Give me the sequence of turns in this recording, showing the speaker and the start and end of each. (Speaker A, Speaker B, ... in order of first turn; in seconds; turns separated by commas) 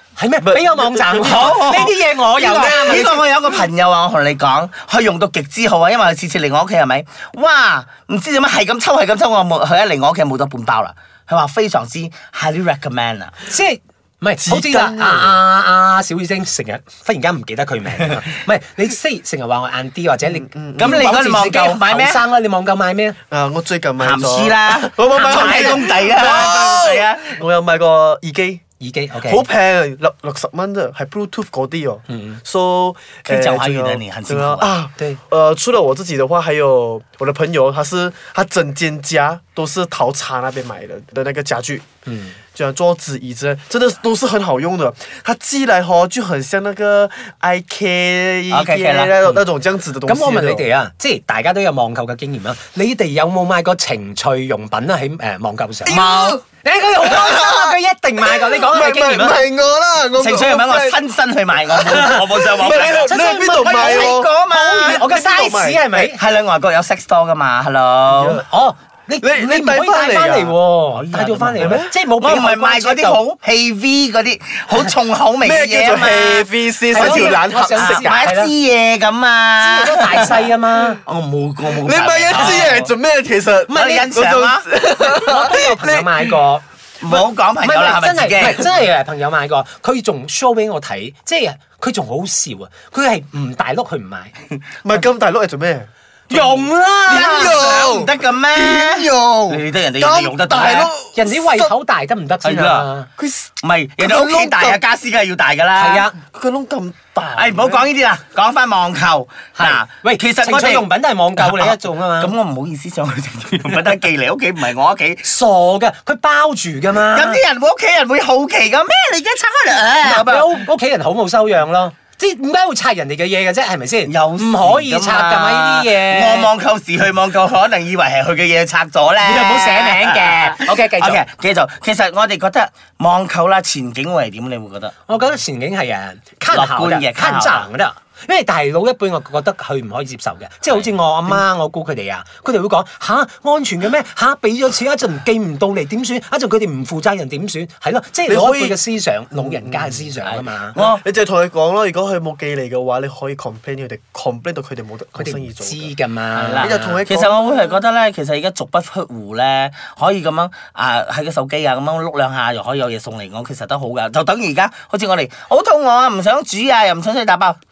Speaker A: 0.2-3.2, Speaker B: 0.4-1.6, Speaker C: 1.2-13.3, Speaker A: 13.5-23.2, Speaker B: 14.4-15.3, Speaker B: 20.3-21.0, Speaker C: 20.8-22.2, Speaker B: 23.3-28.6, Speaker C: 24.0-27.4, Speaker A: 25.1-25.8, Speaker A: 28.8-29.4, Speaker B: 29.2-41.9, Speaker A: 32.1-32.4, Speaker C: 33.3-34.8, Speaker A: 42.1-42.4, Speaker B: 42.5-50.7, Speaker C: 48.5-49.1, Speaker A: 50.0-59.4, Speaker B: 55.8-56.4, Speaker B: 57.0-61.0, Speaker C: 60.2-65.1, Speaker B: 61.7-66.0, Speaker A: 62.0-66.2, Speaker C: 66.0-68.4, Speaker B: 68.1-68.5, Speaker A: 68.5-73.2, Speaker B: 69.2-70.6, Speaker C: 71.0-82.9, Speaker B: 71.6-72.0, Speaker B: 75.4-78.1, Speaker A: 76.9-78.5, Speaker A: 79.6-81.0, Speaker B: 81.7-86.3, Speaker A: 82.3-82.7, Speaker A: 83.7-84.1, Speaker C: 83.7-84.7, Speaker A: 85.0-94.3, Speaker C: 87.0-88.7, Speaker B: 94.8-101.7, Speaker A: 96.3-97.7, Speaker C: 97.1-101.0, Speaker A: 101.1-103.1, Speaker C: 102.4-102.9, Speaker B: 103.2-104.7, Speaker C: 103.6-106.1, Speaker A: 105.8-106.1, Speaker B: 106.3-107.9, Speaker C: 107.3-115.3, Speaker A: 109.6-112.3, Speaker A: 115.2-117.4, Speaker C: 117.0-120.7, Speaker A: 120.0-126.5, Speaker C: 124.0-135.0, Speaker A: 129.2-131.2, Speaker A: 135.1-150.8, Speaker C: 136.5-137.7, Speaker B: 148.3-148.8, Speaker B: 149.3-150.1, Speaker C: 150.2-151.0, Speaker B: 150.9-155.9, Speaker A: 155.2-157.0, Speaker C: 156.3-167.6, Speaker B: 156.6-157.5